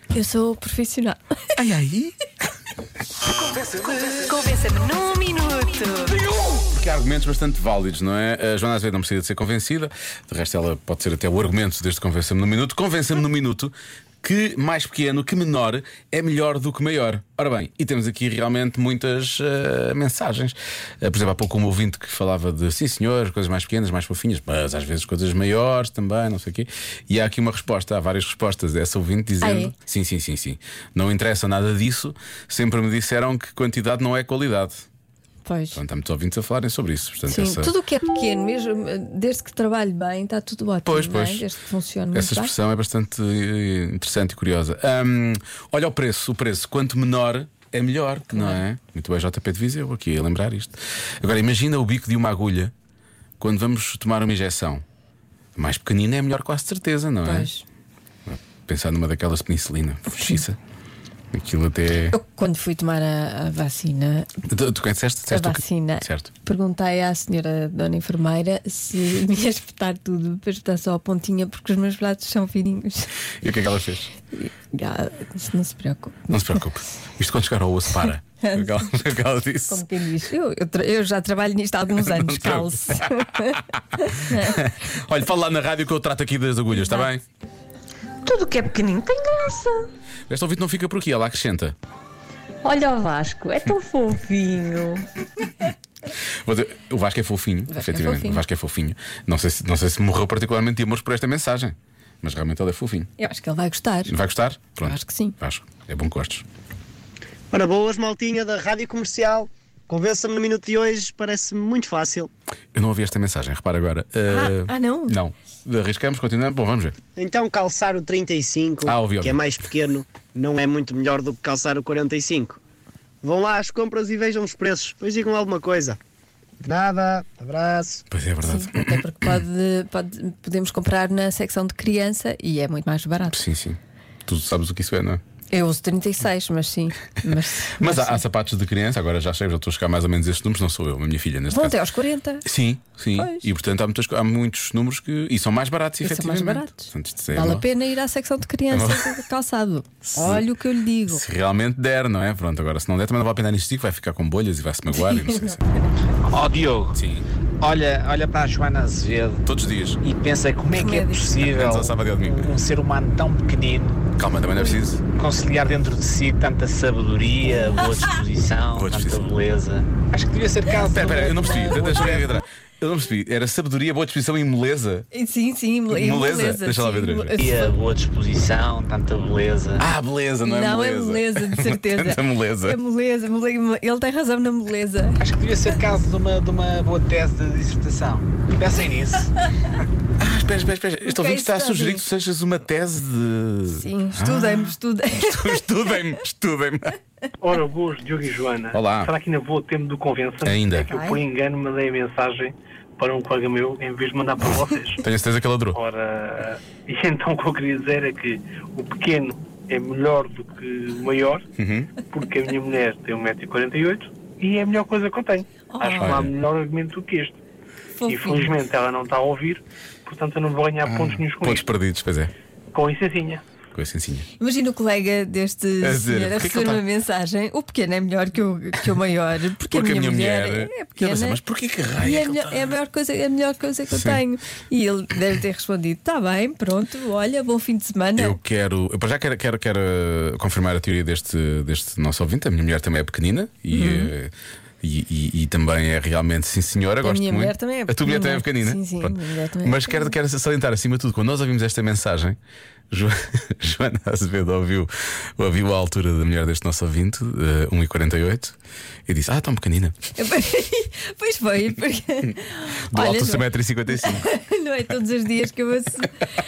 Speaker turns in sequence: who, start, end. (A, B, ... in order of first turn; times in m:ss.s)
0:00.1-0:01.2 A
0:01.6-0:02.1 B
0:03.6-0:06.2 A
0:06.5-0:34.8 B
0:29.4-0:29.7 A
0:35.4-0:35.8 A
0:35.7-0:37.7 B
0:37.3-0:42.5 A
0:40.8-0:41.5 B
0:42.1-0:52.7 B
0:48.3-0:48.6 A
0:53.4-0:54.8 B
0:55.6-0:57.5 B
0:57.2-0:57.6 A
0:58.2-1:00.6 B
1:01.3-1:02.2 B
1:02.1-1:04.3 A
1:04.5-1:06.3 B
1:05.3-1:13.1 A
1:13.4-1:14.1 B
1:14.3-1:16.4 A
1:16.3-1:19.8 B
1:18.4-1:18.9 A
1:19.7-1:24.7 A
1:22.0-1:27.2 B
1:26.7-1:27.1 A
1:28.2-1:29.8 C
1:30.3-1:31.8 B
1:32.6-1:35.0 C
1:36.3-1:43.1 B
1:37.7-1:38.4 A
1:43.2-1:44.1 A
1:44.0-1:46.4 B
1:44.8-1:45.4 A
1:47.5-1:52.3 D
1:52.7-1:57.0 B
1:54.3-1:55.2 A
1:57.2-2:02.6 D
1:58.8-1:59.4 B
2:03.2-2:06.0 D
2:06.6-2:08.0 D
2:08.1-2:09.4 B
2:08.4-2:13.4 A
2:13.3-2:15.2 B
2:15.5-2:18.2 A
2:17.7-2:21.8 B
2:21.5-2:22.4 A
2:22.4-2:27.6 B
2:23.2-2:23.4 A
2:26.0-2:31.2 A
2:28.7-2:29.2 B
2:30.1-2:30.5 B
2:31.0-2:35.6 B
2:35.0-2:35.6 A
2:36.2-2:37.0 E
2:36.9-2:37.2 B
2:37.6-2:44.1 E
2:39.4-2:40.0 B
2:40.7-2:41.4 A
2:41.4-2:42.5 B
2:44.2-2:45.0 B
2:45.0-2:52.4 E
2:48.8-2:49.2 B
2:50.9-2:55.1 B
2:55.1-2:57.7 A
2:55.9-2:57.3 B
2:57.4-2:59.8 E
2:59.8-3:02.8 B
3:00.4-3:05.2 A
3:05.2-3:09.3 E
3:10.2-3:17.0 B
3:11.0-3:12.0 A
3:13.7-3:15.7 A
3:17.4-3:25.0 F
3:18.7-3:19.1 B
3:20.4-3:20.9 B
3:20.9-3:21.2 A
3:25.0-3:25.8 B
3:25.7-3:31.4 F
3:31.6-3:31.9 B
3:32.1-3:37.4 F
3:35.7-3:36.2 A
3:36.0-3:36.3 B
3:38.0-3:38.5 A
3:38.1-3:41.7 F
3:40.8-3:42.3 B
3:42.7-3:43.4 F
3:43.7-3:44.3 B
3:44.4-3:51.4 A
3:45.8-3:46.8 B
3:49.7-3:52.5 B
3:52.0-3:58.4 A
3:53.9-3:54.2 B
3:58.2-4:12.4 B
4:03.7-4:04.1 A
4:07.0-4:10.1 A
4:12.9-4:18.6 B
4:19.1-4:20.0 B
4:20.2-4:26.1 A
4:22.9-4:24.2 B